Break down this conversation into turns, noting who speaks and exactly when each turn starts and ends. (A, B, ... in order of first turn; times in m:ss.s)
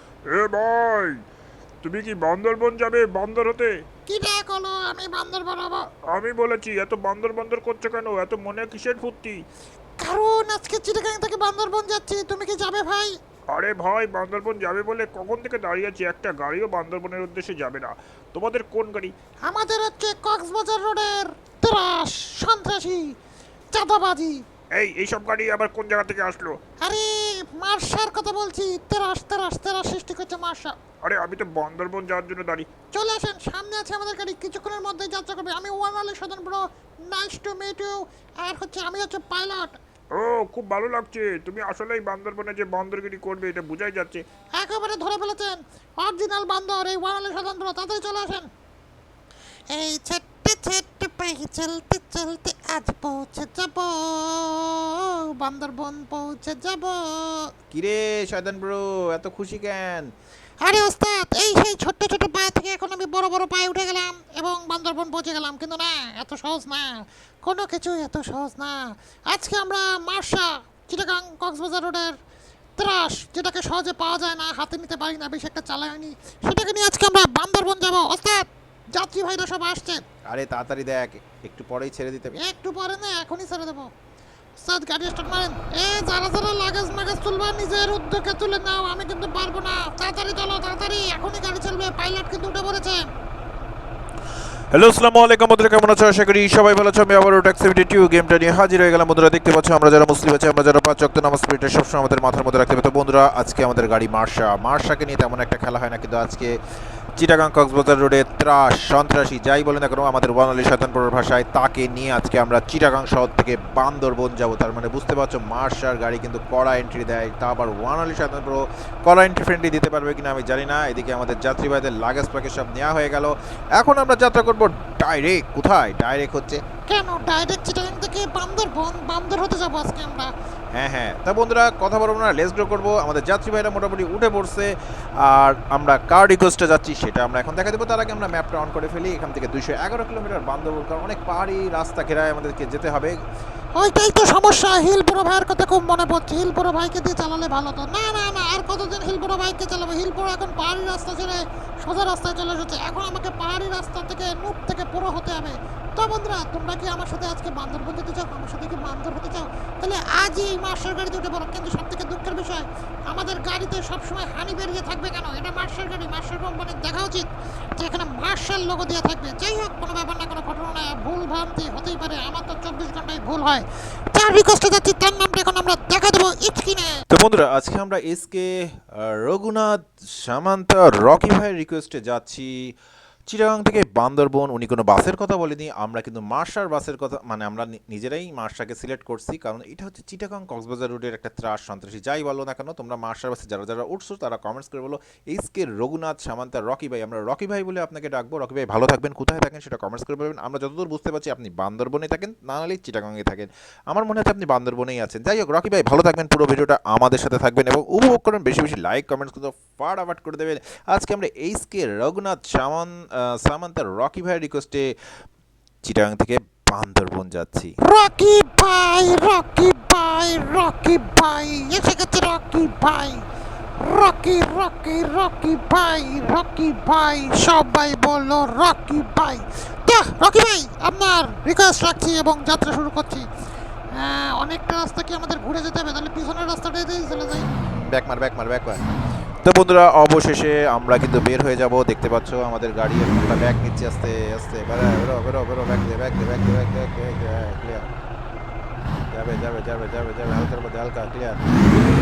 0:00.3-0:01.2 A
0:01.8-0:03.8 A
0:04.0-0:05.9 B
0:06.1-0:09.4 A
0:10.0-0:13.2 B
0:13.5-0:19.1 A
0:19.4-0:23.2 B
0:23.7-0:24.4 B
0:24.7-0:26.6 A
0:26.8-0:30.8 B
0:31.0-0:32.7 A
0:32.9-0:39.8 B
0:40.1-0:44.2 A
0:44.6-0:48.5 B
0:49.7-0:57.5 B
0:57.7-1:00.1 C
1:00.6-1:12.2 B
1:12.8-1:20.0 B
1:20.3-1:22.4 C
1:22.4-1:23.9 B
1:24.6-1:33.0 B
1:34.7-1:46.6 C
1:47.2-2:06.6 C
2:06.9-2:10.3 B
2:10.7-2:23.2 C
2:23.8-2:57.0 B
2:57.1-3:02.7 C
3:03.3-3:34.9 C
3:35.8-3:37.7 C
3:37.8-3:43.2 B
3:43.8-3:53.3 B
3:53.9-3:57.5 B
3:57.7-3:58.8 C
3:59.4-4:07.9 C
4:09.1-4:11.5 C